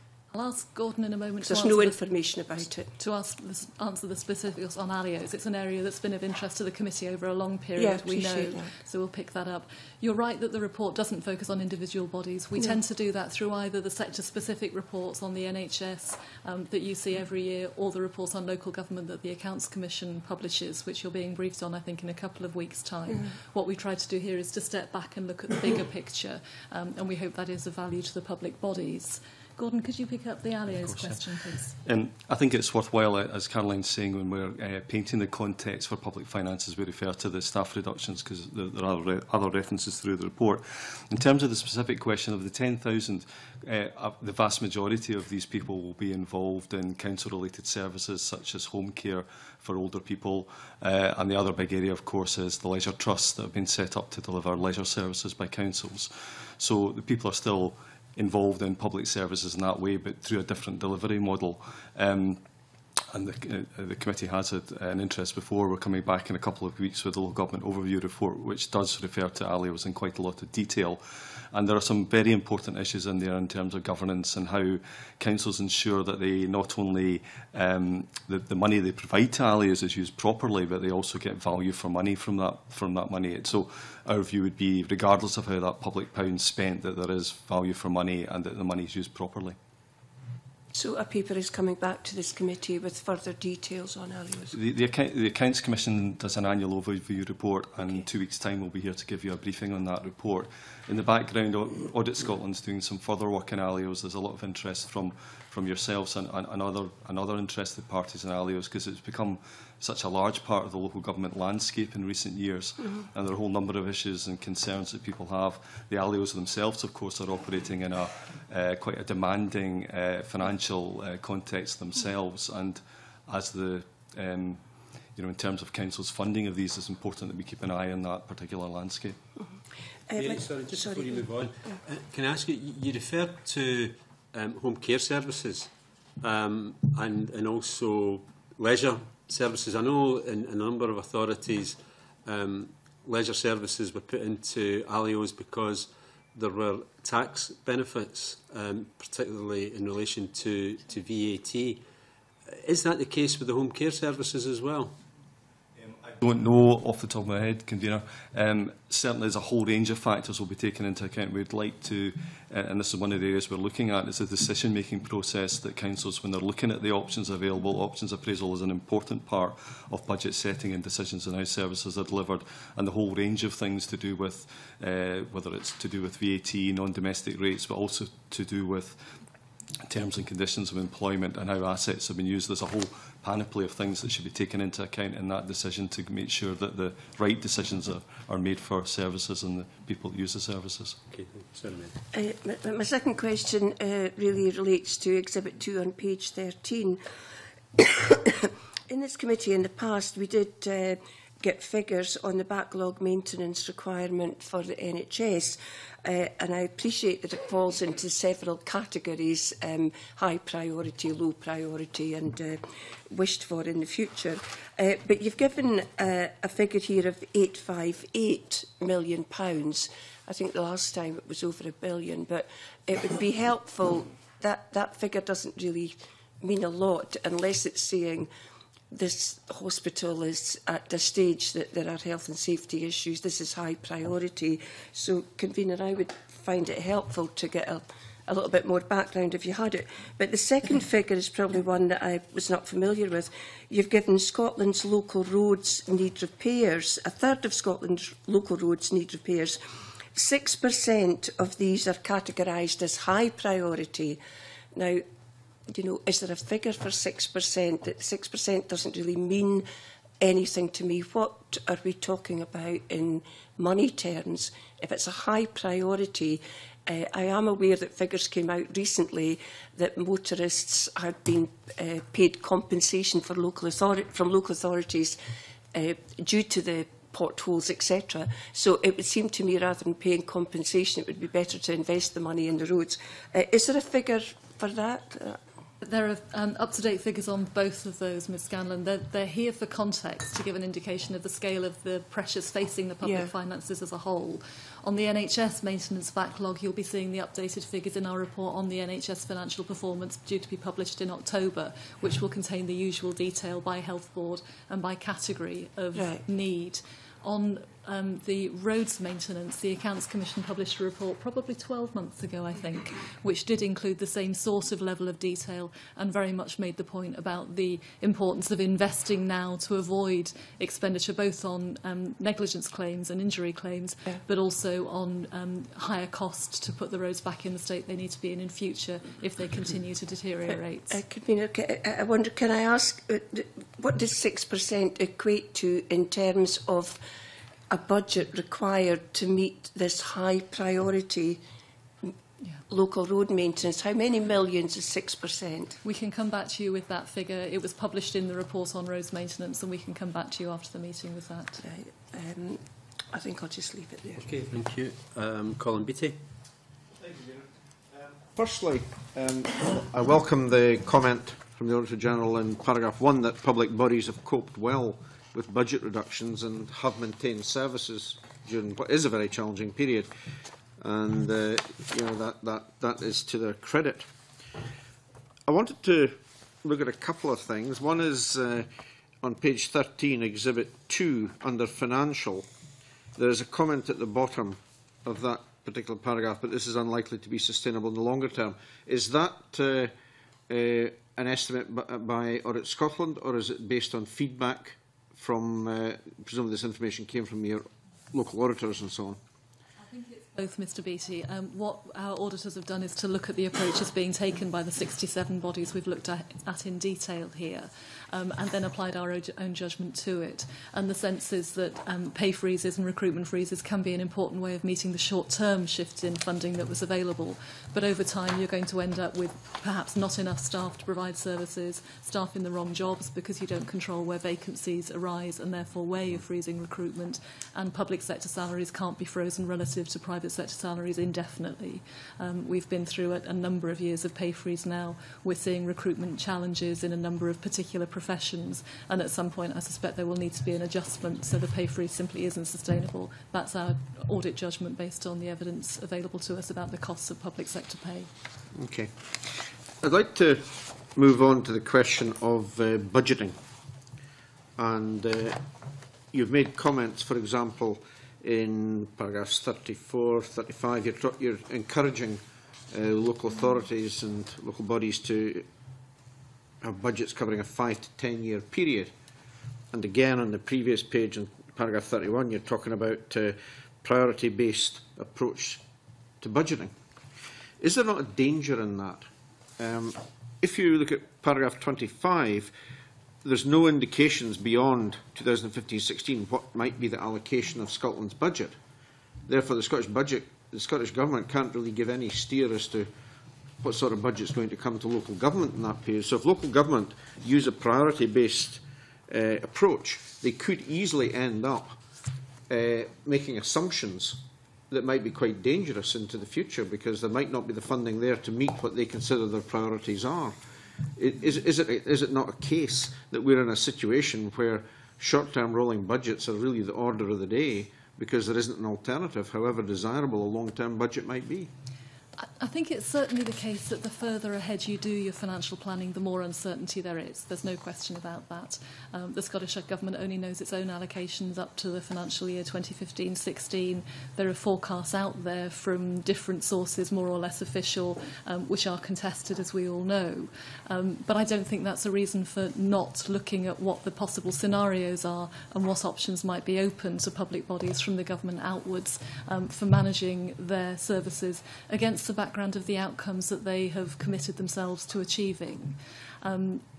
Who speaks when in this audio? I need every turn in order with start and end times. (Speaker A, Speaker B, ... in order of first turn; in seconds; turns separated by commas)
Speaker A: 0.3-2.0, Speaker B: 1.4-2.9, Speaker A: 2.6-31.7, Speaker B: 7.8-8.7, Speaker C: 30.7-31.2, Speaker C: 31.8-62.4, Speaker C: 63.1-89.5, Speaker B: 90.7-94.5, Speaker C: 94.5-124.6, Speaker C: 125.1-129.2, Speaker B: 130.1-131.3, Speaker D: 130.2-135.7, Speaker D: 136.2-151.8, Speaker D: 152.5-154.9, Speaker C: 155.9-179.1, Speaker C: 179.9-191.0, Speaker D: 191.1-192.0, Speaker B: 192.1-197.0, Speaker B: 197.8-228.3, Speaker B: 228.9-249.6, Speaker B: 250.1-254.2, Speaker B: 254.7-255.0, Speaker B: 255.7-259.6, Speaker B: 260.2-275.2, Speaker B: 275.7-285.4, Speaker A: 285.8-331.0, Speaker B: 293.0-293.3, Speaker B: 305.9-306.2, Speaker B: 330.9-337.0, Speaker B: 337.7-341.4, Speaker B: 342.7-345.8, Speaker A: 345.8-351.6, Speaker B: 351.6-352.6, Speaker B: 353.1-354.2, Speaker D: 354.2-356.2, Speaker E: 357.0-357.4, Speaker E: 358.2-370.1, Speaker E: 370.8-374.1, Speaker E: 375.5-378.7, Speaker E: 379.2-382.5, Speaker E: 383.1-389.9, Speaker E: 390.5-399.2, Speaker A: 399.8-448.1, Speaker E: 448.5-448.9, Speaker E: 449.8-453.4, Speaker E: 454.6-455.4, Speaker E: 456.1-465.4, Speaker E: 466.6-468.9, Speaker E: 469.7-475.6, Speaker E: 476.2-476.7, Speaker E: 477.6-482.5, Speaker E: 483.2-488.6, Speaker E: 489.2-492.9, Speaker E: 493.6-501.8, Speaker E: 502.5-510.4, Speaker E: 511.0-521.5, Speaker A: 522.2-556.6